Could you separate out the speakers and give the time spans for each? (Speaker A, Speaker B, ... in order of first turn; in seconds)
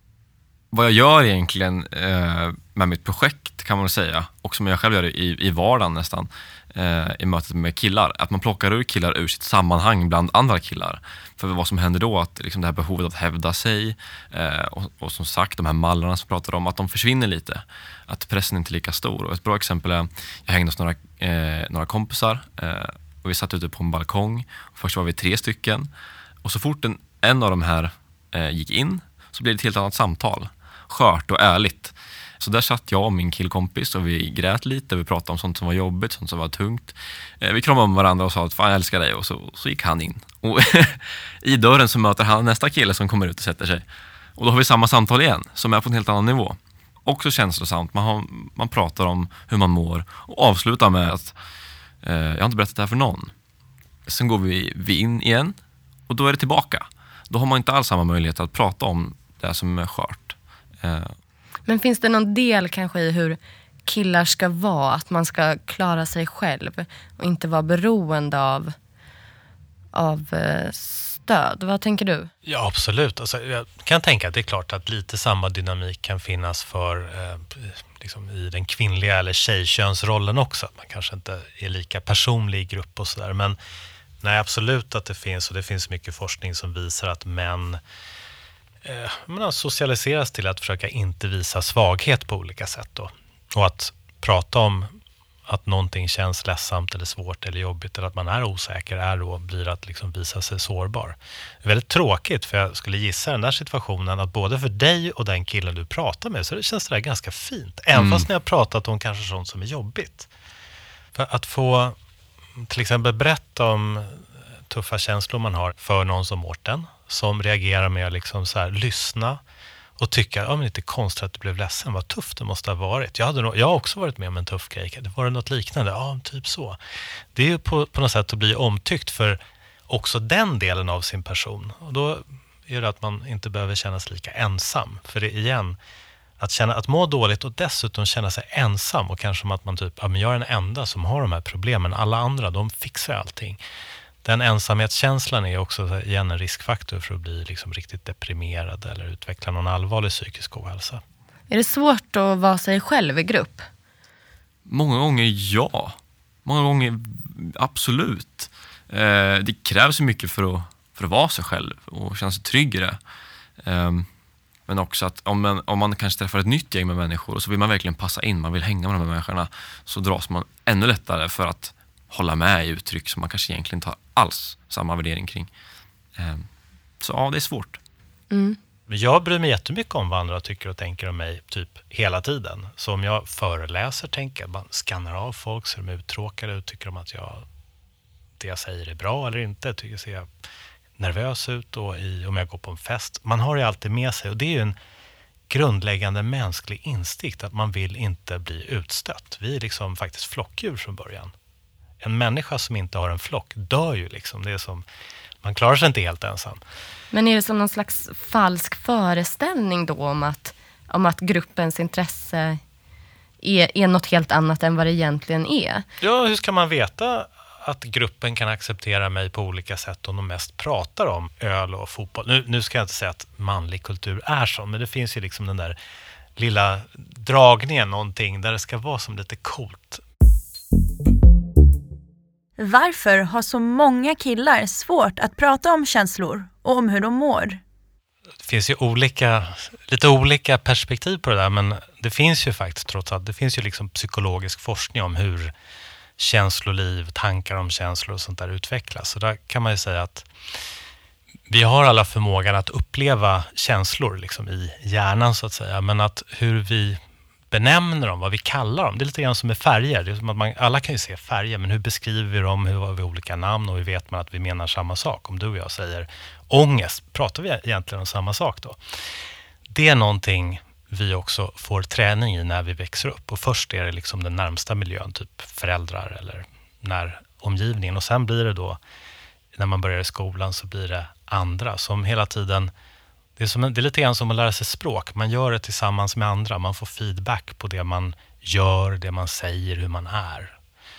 Speaker A: 0.7-25.9, 26.4-43.8, 44.4-51.3, 52.0-53.3, 54.1-55.5, 56.1-61.2, 107.9-108.3, 154.7-163.0, 163.6-164.1, 164.7-175.5, 176.2-176.5, 177.0-177.8
Speaker B: 61.6-68.7, 69.9-72.3, 151.5-153.7, 178.3-178.6, 207.1-212.6, 213.4-215.8
Speaker C: 72.4-83.6, 84.2-87.8, 88.8-94.9, 95.5-110.3, 111.1-112.0, 112.6-119.4, 120.0-126.8, 127.3-135.8, 136.4-143.6, 144.2-151.0, 178.9-187.4, 188.4-190.3, 191.0-194.8, 195.5-201.3, 202.0-204.8, 205.4-206.6, 216.0-225.8, 226.3-230.0, 238.4-245.5, 246.2-250.3, 251.5-257.0, 257.5-268.8, 269.7-278.8, 279.5-282.7, 283.4-290.6
Speaker D: 232.6-237.6